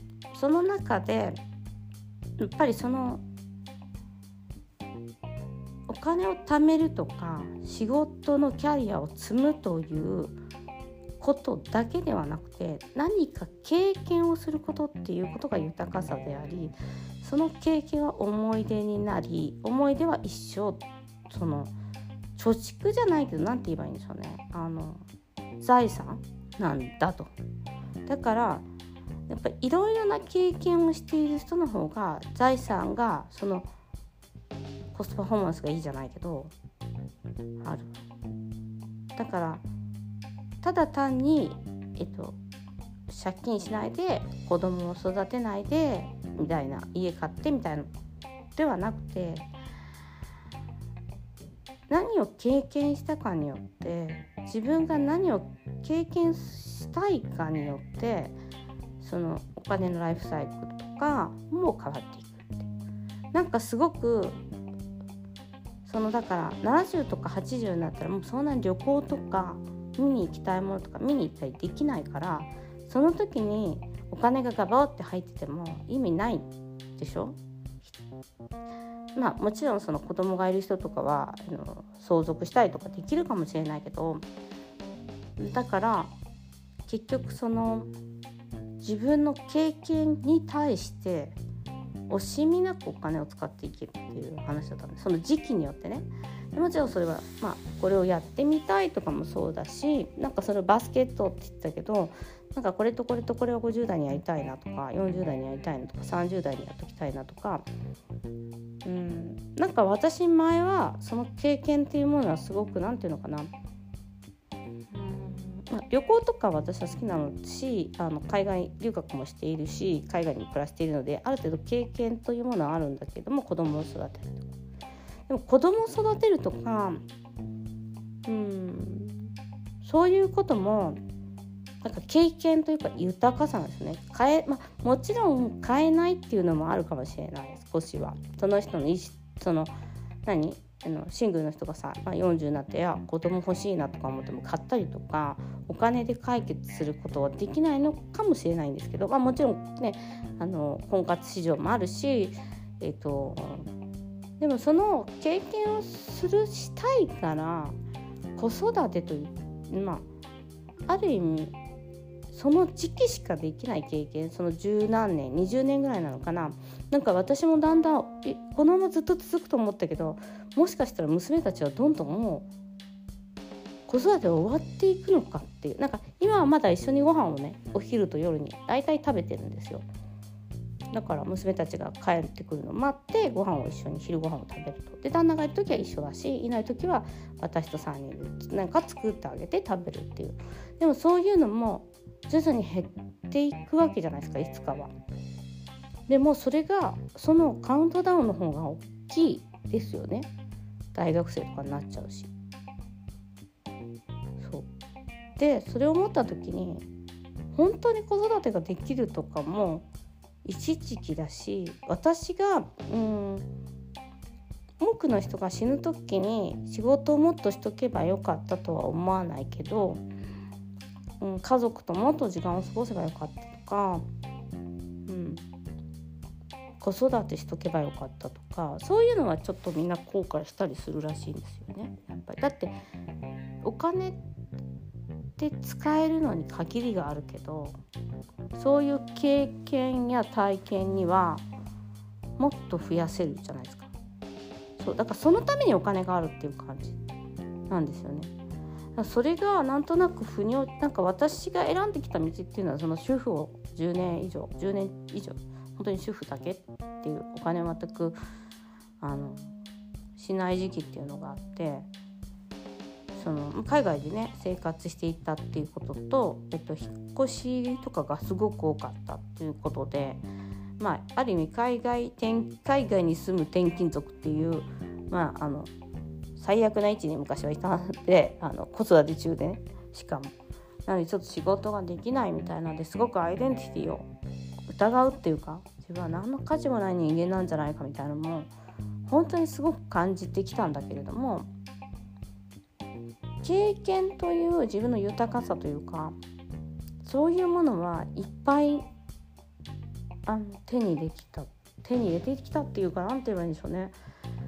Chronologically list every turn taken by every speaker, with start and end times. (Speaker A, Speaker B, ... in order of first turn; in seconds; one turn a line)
Speaker A: 0.3-1.4
Speaker A: 2.4-3.2
Speaker A: 5.9-10.4
Speaker A: 11.2-21.7
Speaker A: 22.4-25.0
Speaker A: 25.6-27.3
Speaker A: 28.1-28.6
Speaker A: 29.3-33.7
Speaker A: 34.9-36.5
Speaker A: 37.6-37.9
Speaker A: 39.1-39.6
Speaker A: 40.6-42.4
Speaker A: 43.1-47.9
Speaker A: 48.5-49.5
Speaker A: 51.9-58.4
Speaker A: 59.0-62.7
Speaker A: 63.3-64.4
Speaker A: 65.8-77.9
Speaker A: 79.1-84.2
Speaker A: 85.4-86.1
Speaker A: 86.8-87.9
Speaker A: 88.8-91.4
Speaker A: 92.1-107.7
Speaker A: 108.8-113.5
Speaker A: 114.9-124.5
Speaker A: 125.3-127.0
Speaker A: 128.3-129.3
Speaker A: 129.8-131.0
Speaker A: 131.8-139.7
Speaker A: 140.2-153.7
Speaker A: 154.4-157.8
Speaker A: 158.3-160.0
Speaker A: 160.9-161.6
Speaker A: 162.3-172.5
Speaker A: 173.9-179.8
Speaker A: 180.9-194.9
Speaker A: 196.1-200.3
Speaker A: 200.9-202.3
Speaker A: 204.4-204.7
Speaker A: 205.4-206.8
Speaker A: 207.5-209.8
Speaker A: 210.4-213.5
Speaker A: 214.8-220.0
Speaker A: 221.2-224.0
Speaker A: 225.1-225.4
Speaker A: 226.8-232.8
Speaker A: 233.6-234.2
Speaker A: 235.4-237.8
Speaker A: 238.5-241.4
Speaker A: 242.4-243.9
Speaker A: 244.8-247.0
Speaker A: 247.7-248.3
Speaker A: 248.9-258.2
Speaker A: 259.0-259.5
Speaker A: 260.1-261.9
Speaker A: 263.1-270.2
Speaker A: 270.8-275.7
Speaker A: 276.4-280.3
Speaker A: 280.9-284.1
Speaker A: 284.7-288.5
Speaker A: 289.1-291.5
Speaker A: 293.4-296.2
Speaker A: 297.0-298.9
Speaker A: 300.2-303.9